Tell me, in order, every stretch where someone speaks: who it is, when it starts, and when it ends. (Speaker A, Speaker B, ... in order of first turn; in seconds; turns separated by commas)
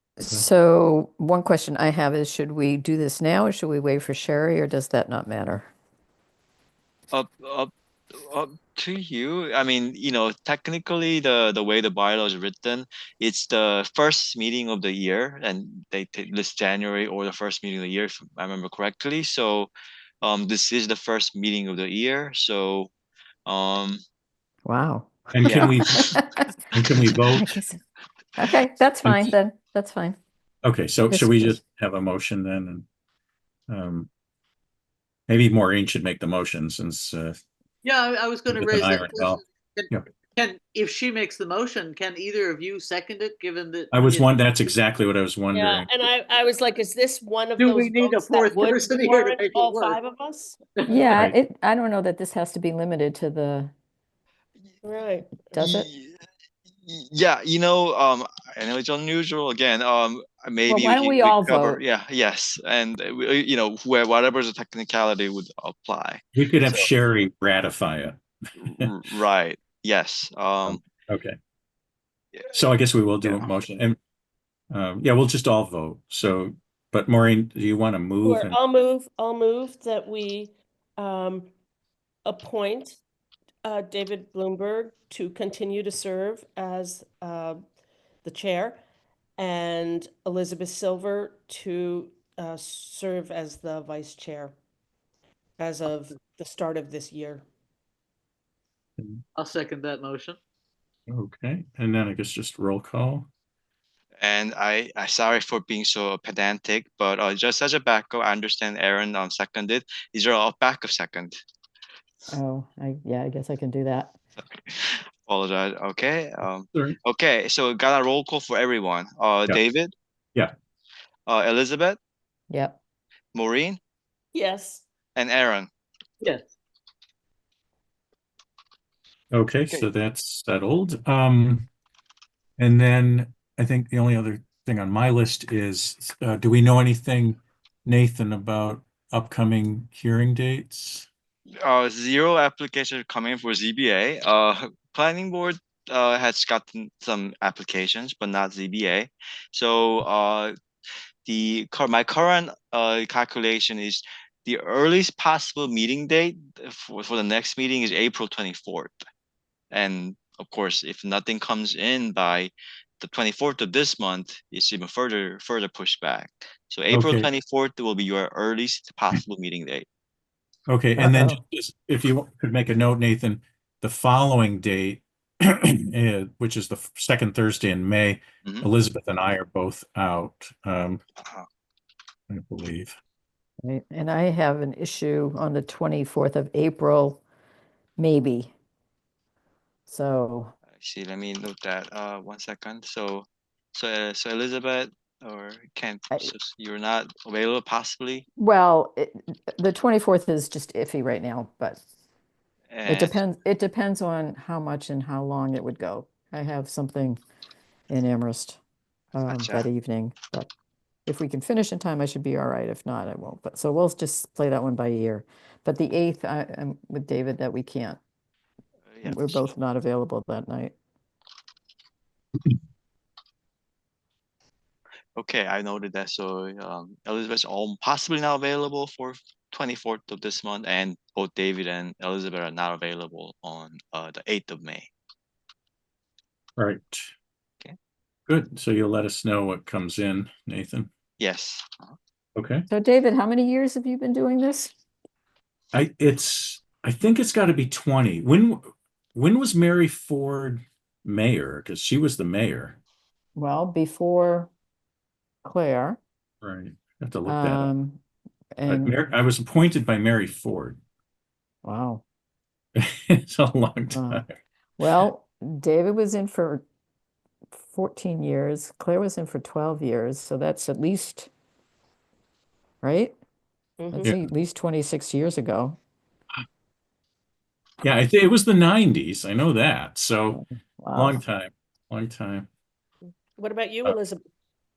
Speaker A: 0.2-5.7, Speaker B: 7.1-19.7, Speaker B: 20.2-22.9, Speaker B: 23.4-24.0, Speaker A: 24.6-26.4, Speaker C: 25.3-26.1, Speaker B: 25.4-25.8, Speaker C: 26.7-27.5, Speaker A: 27.3-27.8, Speaker A: 28.4-30.2, Speaker C: 29.0-29.3, Speaker C: 30.6-32.9, Speaker A: 31.1-31.6, Speaker C: 33.7-34.1, Speaker C: 35.3-37.4, Speaker D: 37.8-44.3, Speaker C: 38.5-40.0, Speaker C: 43.9-45.9, Speaker E: 45.5-50.6, Speaker D: 47.6-50.0, Speaker A: 50.9-53.7, Speaker E: 54.8-55.5, Speaker A: 55.5-55.9, Speaker B: 55.6-56.2, Speaker B: 56.8-66.9, Speaker A: 60.7-61.8, Speaker C: 66.3-68.9, Speaker B: 68.6-70.8, Speaker C: 70.7-71.4, Speaker C: 72.5-74.0, Speaker B: 73.2-73.5, Speaker C: 74.7-78.5, Speaker E: 78.2-81.5, Speaker E: 82.2-83.0, Speaker E: 83.6-87.6, Speaker E: 88.2-88.8, Speaker E: 89.4-94.5, Speaker E: 95.6-97.4, Speaker D: 99.3-100.4, Speaker C: 101.1-103.3, Speaker B: 104.2-111.3, Speaker A: 112.3-114.1, Speaker B: 114.4-119.9, Speaker B: 121.3-122.0, Speaker A: 122.5-122.8, Speaker B: 123.3-123.8, Speaker E: 124.3-124.8, Speaker B: 125.2-125.7, Speaker C: 129.3-131.7, Speaker C: 132.6-141.1, Speaker B: 141.6-150.5, Speaker B: 151.2-159.0, Speaker B: 159.7-169.8, Speaker C: 166.9-167.3, Speaker C: 170.7-181.0, Speaker A: 171.0-171.4, Speaker C: 182.3-182.9, Speaker A: 183.6-187.2, Speaker A: 188.0-188.5, Speaker A: 189.9-190.5, Speaker B: 190.8-198.2, Speaker A: 198.4-201.8, Speaker B: 202.7-203.2, Speaker A: 202.8-207.2, Speaker A: 207.9-208.6, Speaker A: 209.1-210.5, Speaker B: 209.3-209.7, Speaker A: 211.1-218.0, Speaker B: 218.9-219.5, Speaker A: 219.0-220.7, Speaker B: 225.2-234.9, Speaker C: 236.6-237.1, Speaker C: 238.3-240.9, Speaker B: 241.2-241.9, Speaker C: 242.3-242.7, Speaker A: 242.7-244.7, Speaker C: 245.7-252.8, Speaker A: 253.3-254.5, Speaker A: 255.4-256.0, Speaker C: 256.4-257.7, Speaker A: 257.2-258.0, Speaker A: 258.6-258.9, Speaker C: 258.7-260.8, Speaker A: 261.6-262.0, Speaker C: 262.8-264.4, Speaker A: 263.9-264.2, Speaker A: 264.8-266.6, Speaker A: 267.5-271.3, Speaker A: 272.8-273.1, Speaker E: 273.8-274.1, Speaker A: 273.9-275.8, Speaker C: 274.0-274.3, Speaker C: 277.8-280.4, Speaker A: 280.3-281.2, Speaker C: 280.9-282.5, Speaker E: 283.4-284.2